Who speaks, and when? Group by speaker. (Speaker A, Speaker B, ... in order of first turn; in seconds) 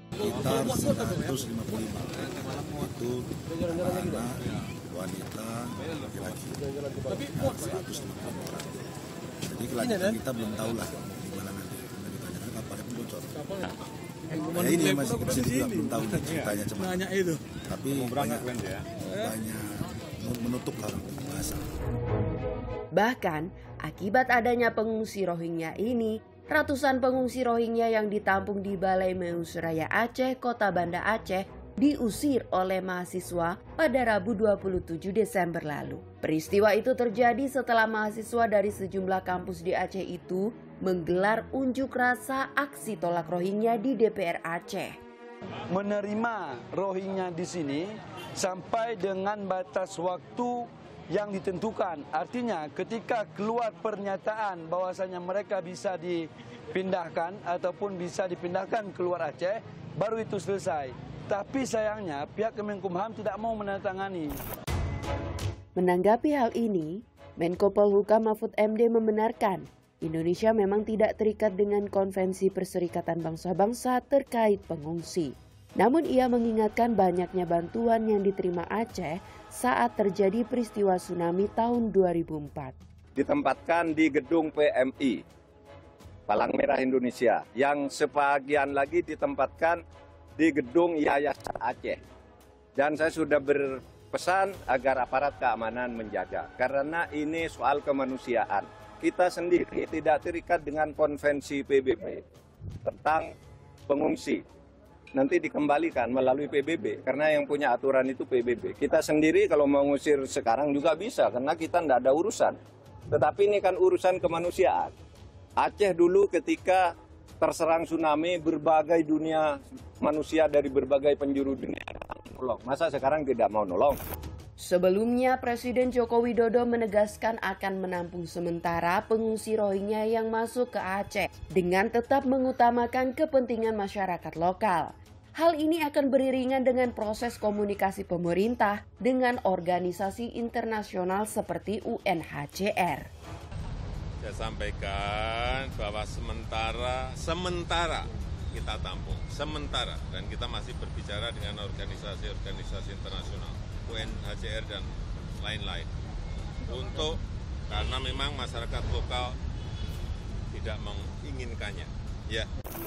Speaker A: 0.2-8.9, 9.4-21.7
Speaker B: 22.9-45.0, 65.8-82.8, 124.6-143.1
Speaker C: 45.7-64.4
Speaker D: 83.2-85.2, 86.3-89.8, 90.4-92.0, 92.8-102.2, 102.8-103.3, 103.9-104.4, 105.2-112.6, 113.1-114.9, 115.6-116.9, 117.4-124.0
Speaker E: 144.2-154.9, 155.4-155.9, 156.7-157.2, 157.7-159.3, 160.5-162.5